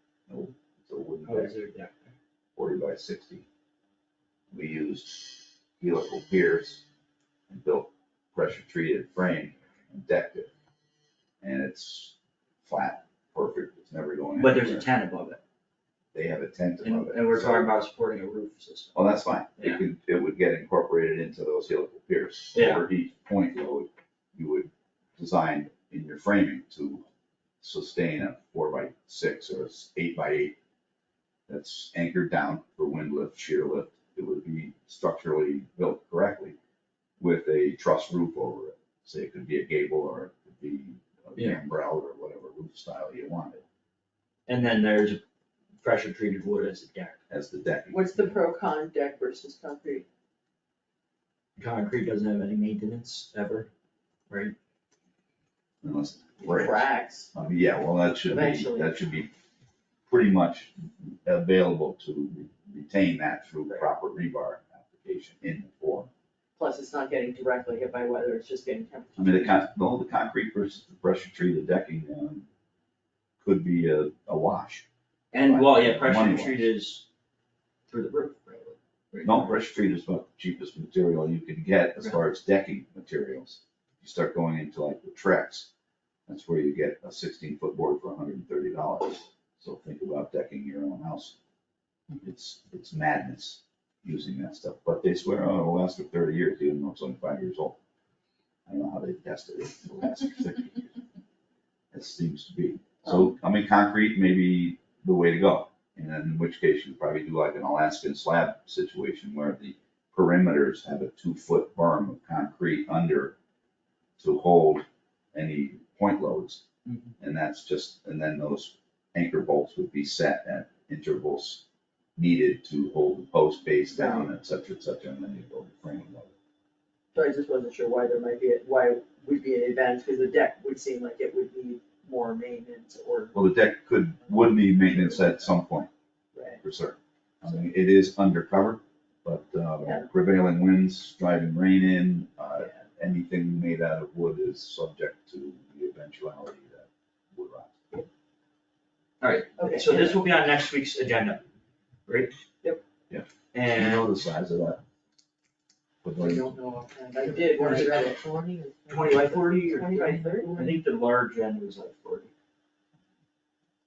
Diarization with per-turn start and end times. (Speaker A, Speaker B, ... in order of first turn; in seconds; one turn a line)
Speaker A: 0.3-1.5
Speaker B: 1.2-2.1
Speaker A: 2.5-3.5
Speaker A: 4.5-6.8
Speaker A: 7.5-10.5
Speaker A: 11.4-14.9
Speaker B: 14.4-15.4
Speaker A: 16.1-17.7
Speaker B: 16.8-18.9
Speaker A: 18.9-27.0
Speaker B: 22.5-22.8
Speaker A: 27.6-30.6
Speaker A: 31.5-36.5
Speaker A: 37.2-43.6
Speaker B: 44.5-45.2
Speaker B: 45.8-47.2
Speaker A: 47.3-48.3
Speaker C: 47.9-50.0
Speaker B: 51.5-53.7
Speaker B: 54.3-54.5
Speaker A: 55.8-59.3
Speaker C: 56.4-57.3
Speaker C: 58.2-59.0
Speaker A: 60.1-66.1
Speaker C: 66.6-69.5
Speaker A: 69.2-72.5
Speaker A: 73.4-74.8
Speaker B: 75.3-77.0
Speaker A: 75.4-76.7
Speaker B: 77.9-79.6
Speaker A: 79.2-85.7
Speaker A: 86.3-91.3
Speaker A: 92.2-97.8
Speaker A: 98.7-100.9
Speaker A: 101.9-113.3
Speaker A: 114.2-116.6
Speaker B: 116.8-117.1
Speaker A: 117.2-121.6
Speaker A: 122.2-126.3
Speaker C: 123.9-124.3
Speaker C: 127.1-133.3
Speaker A: 133.3-135.9
Speaker C: 134.9-135.3
Speaker C: 136.3-136.6
Speaker A: 136.6-147.8
Speaker B: 149.2-151.4
Speaker C: 149.6-150.2
Speaker B: 152.1-152.3
Speaker A: 153.1-154.8
Speaker B: 153.5-154.1
Speaker A: 156.0-156.5
Speaker C: 156.2-158.2
Speaker B: 157.4-158.1
Speaker D: 157.5-159.5
Speaker B: 158.9-162.3
Speaker C: 158.9-160.8